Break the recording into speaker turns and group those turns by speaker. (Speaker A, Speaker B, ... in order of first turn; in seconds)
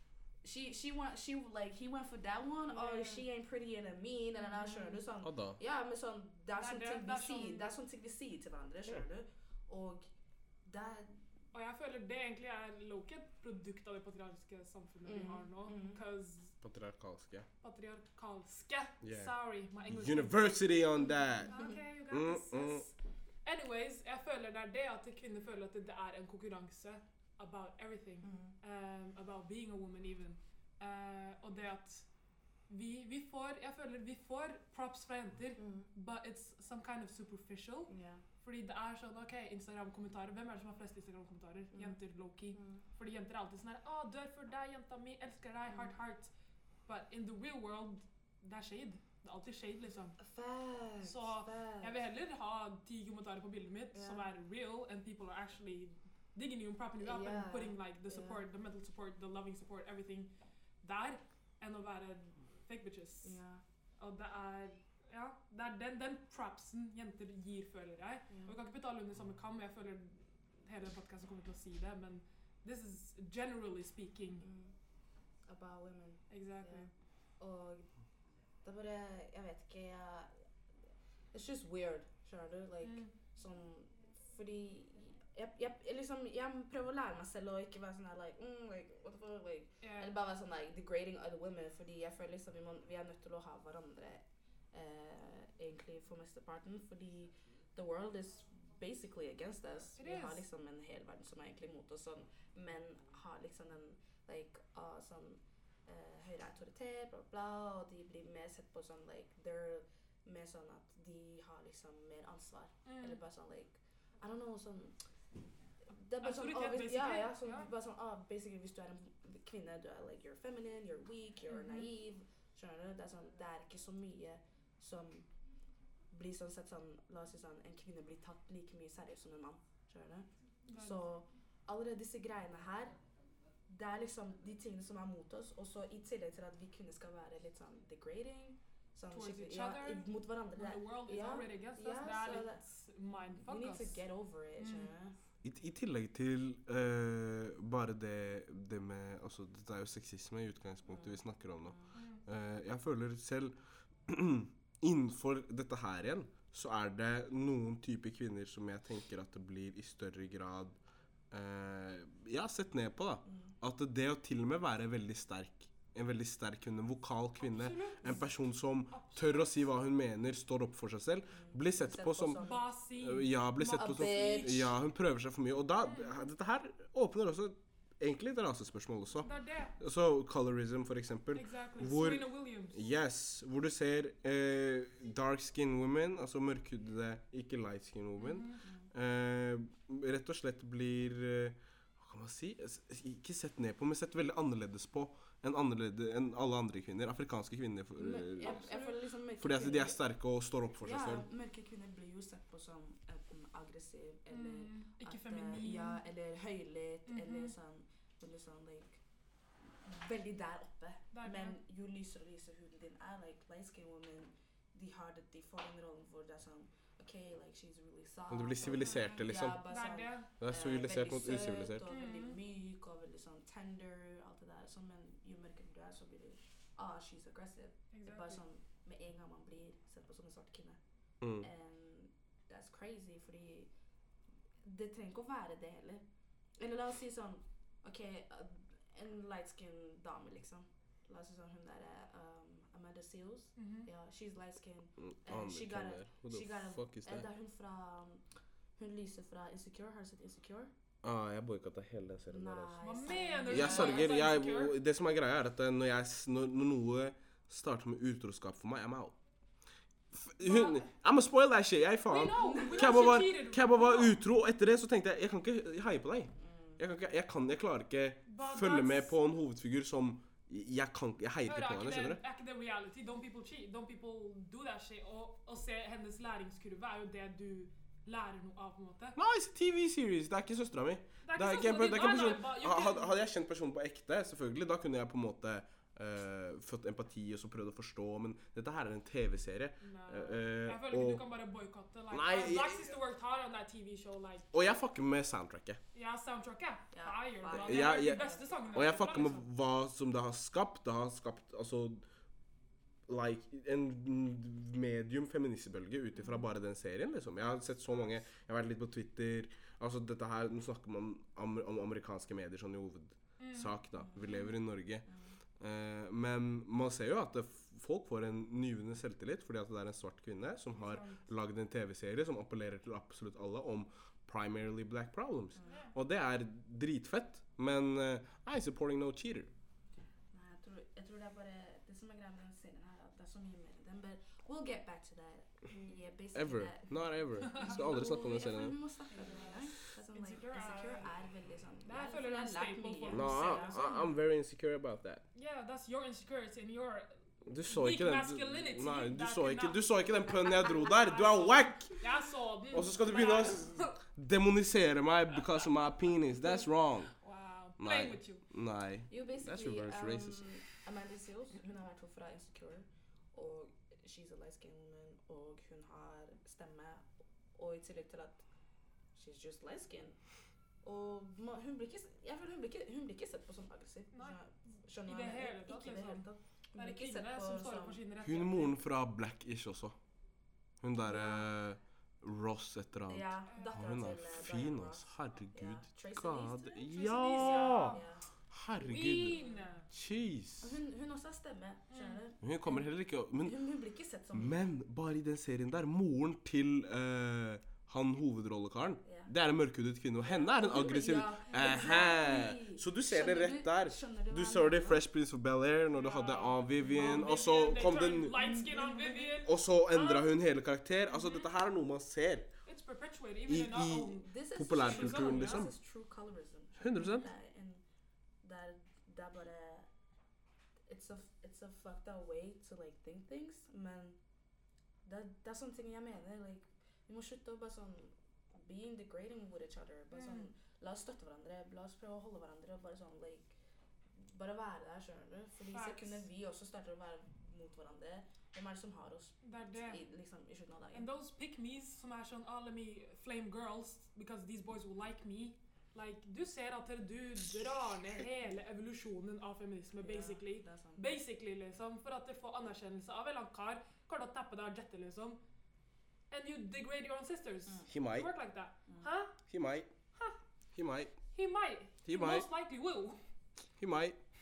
Speaker A: 0.4-10.1, 10.7-11.2, 15.1-16.0, 21.5-21.8, 28.2-28.6, 35.6-35.9, 37.9-38.2, 42.5-42.8, 50.2-51.9, 53.9-54.2, 57.0-58.4, 63.2-63.6, 68.3-68.5, 74.4-74.7, 75.5-77.9, 78.6-80.3, 81.3-115.0, 115.9-125.3, 126.1-132.9, 133.7-142.6, 143.1-145.2, 150.9-151.9, 163.3-163.5, 171.4-172.7, 173.6-174.6, 198.0-200.0, 200.8-209.0, 209.7-230.8, 231.4-233.7, 234.6-236.1, 236.6-248.2, 248.8-250.7, 252.3-254.2, 262.4-263.0, 266.4-266.8, 296.9-298.9, 314.0-314.5, 330.3-344.1, 359.1-368.4, 369.2-370.2, 370.8-378.0, 381.0-381.5, 383.1-388.3, 389.3-389.6, 390.6-392.9, 393.4-394.7, 399.0-399.3, 400.2-405.0, 406.8-407.2, 408.3-409.4, 414.2-417.8, 418.4-419.9, 420.9-424.2, 425.1-433.6, 434.2-441.1, 450.0-451.1
Speaker B: 2.7-3.3, 4.4-5.0, 6.6-7.7, 11.5-16.6, 17.6-22.9, 23.4-32.0, 32.7-37.9, 38.4-46.3, 46.9-50.2, 51.0-60.3, 60.8-63.4, 64.0-74.5, 76.3-76.9, 82.8-83.1, 89.8-90.1, 100.0-100.5, 112.8-113.2, 116.2-117.7, 121.5-121.9, 130.7-131.0, 139.1-144.0, 144.6-144.9, 151.9-152.2, 167.4-168.2, 168.9-169.6, 172.4-174.7, 175.8-176.2, 179.2-179.8, 181.3-182.8, 188.2-188.6, 198.4-198.9, 204.3-206.0, 207.1-207.5, 211.1-211.6, 218.7-220.3, 221.9-222.4, 227.9-228.4, 243.6-243.9, 252.8-254.8, 260.4-260.9, 262.1-264.2, 268.3-269.2, 271.5-279.2, 281.2-283.2, 289.8-294.5, 295.9-299.5, 313.4-313.8, 320.7-321.2, 325.7-325.9, 337.5-337.9, 339.1-341.1, 341.9-344.0, 345.3-347.1, 347.7-354.0, 357.2-358.4, 374.1-374.4, 375.1-378.8, 383.5-383.8, 386.8-388.0, 388.8-389.9, 391.9-392.2, 401.5-402.0, 405.9-410.4, 411.1-411.5, 412.7-415.7, 430.1-430.5, 435.7-436.2, 439.4-440.0, 440.9-455.4, 456.3-459.4, 461.3-463.2
Speaker C: 5.2-5.6, 16.6-17.5, 19.0-19.3, 19.9-21.6, 22.1-22.9, 145.4-153.6, 154.1-160.8, 161.3-198.6, 199.4-201.2, 218.3-219.6, 220.4-221.8, 231.2-231.5, 245.0-247.3, 251.0-252.8, 253.5-259.2, 260.1-272.2, 279.2-291.2, 292.1-292.9, 294.5-295.8, 297.5-302.1, 303.1-315.1, 315.6-329.5, 336.4-338.8, 343.1-345.2, 347.5-352.0, 352.7-357.1, 357.8-360.4, 378.2-380.0, 380.8-388.0, 388.5-390.7, 392.4-393.6, 394.3-408.4, 409.4-412.5, 413.5-415.7, 416.8-417.3, 457.9-458.3, 459.5-459.9, 460.8-461.1, 462.1-462.5, 463.8-464.2